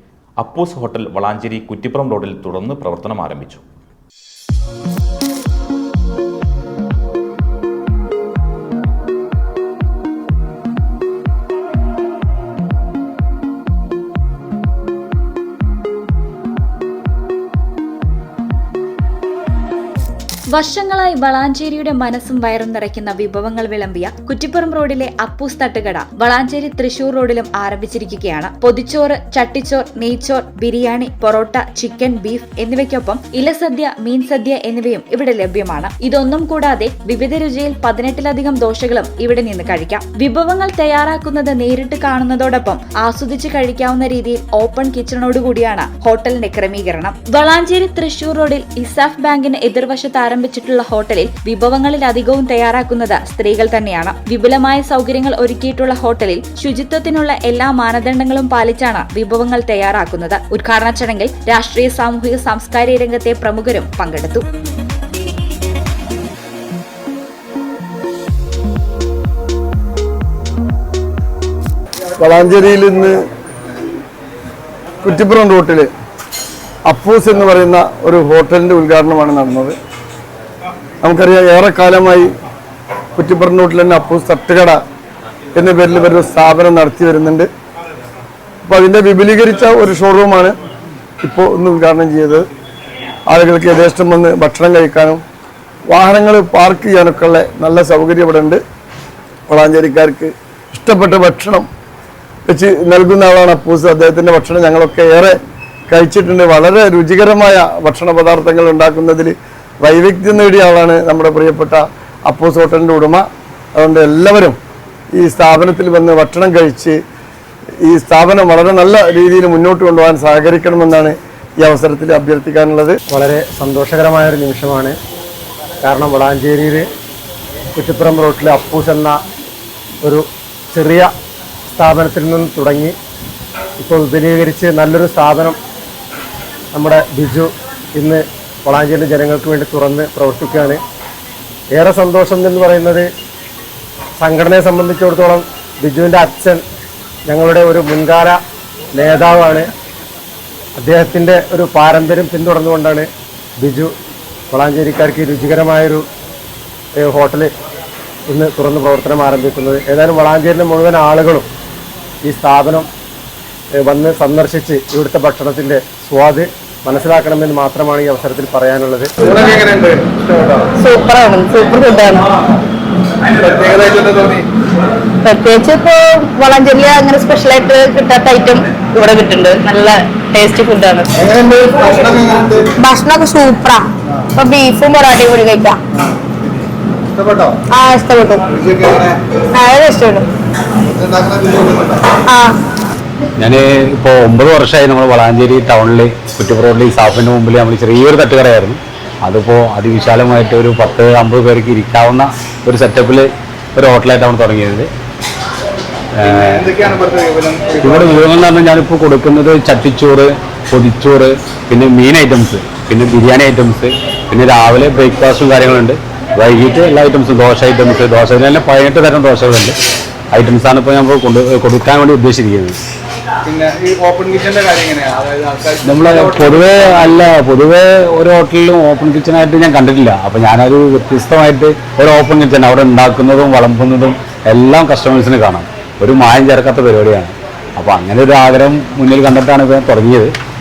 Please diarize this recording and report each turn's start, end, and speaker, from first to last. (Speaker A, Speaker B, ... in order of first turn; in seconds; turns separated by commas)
Speaker A: 0.4-3.6, Speaker B: 20.5-64.4, Speaker C: 72.2-73.1, Speaker C: 75.0-75.9, Speaker C: 76.9-79.8, Speaker C: 81.0-82.3, Speaker C: 83.2-84.8, Speaker C: 85.5-87.5, Speaker C: 88.6-90.5, Speaker C: 91.2-92.4, Speaker C: 93.3-95.2, Speaker C: 95.9-98.6, Speaker C: 99.5-101.7, Speaker C: 102.5-105.4, Speaker C: 105.9-113.2, Speaker C: 113.7-114.6, Speaker C: 115.1-117.0, Speaker C: 117.8-123.0, Speaker D: 123.1-124.9, Speaker D: 125.8-126.8, Speaker D: 127.8-129.2, Speaker D: 130.0-131.1, Speaker D: 131.7-132.9, Speaker D: 133.8-135.6, Speaker D: 136.7-140.8, Speaker D: 141.8-143.1, Speaker D: 144.2-146.6, Speaker D: 147.3-148.4, Speaker D: 148.9-149.7, Speaker D: 150.8-153.1, Speaker D: 153.6-153.9, Speaker D: 154.5-156.0, Speaker D: 157.0-157.5, Speaker D: 158.3-161.4, Speaker D: 162.2-162.9, Speaker D: 163.8-169.1, Speaker E: 169.3-170.6, Speaker F: 170.8-172.3, Speaker E: 173.4-174.4, Speaker F: 175.2-181.1, Speaker E: 181.3-182.6, Speaker F: 182.8-185.8, Speaker E: 186.0-186.5, Speaker E: 187.1-187.6, Speaker F: 187.7-188.5, Speaker E: 188.5-189.1, Speaker F: 189.5-190.3, Speaker E: 190.9-192.0, Speaker F: 192.2-192.6, Speaker G: 193.4-204.9, Speaker G: 206.1-206.9, Speaker E: 206.3-208.2, Speaker G: 207.8-219.7, Speaker G: 220.3-222.8, Speaker E: 223.5-227.1, Speaker G: 225.8-240.3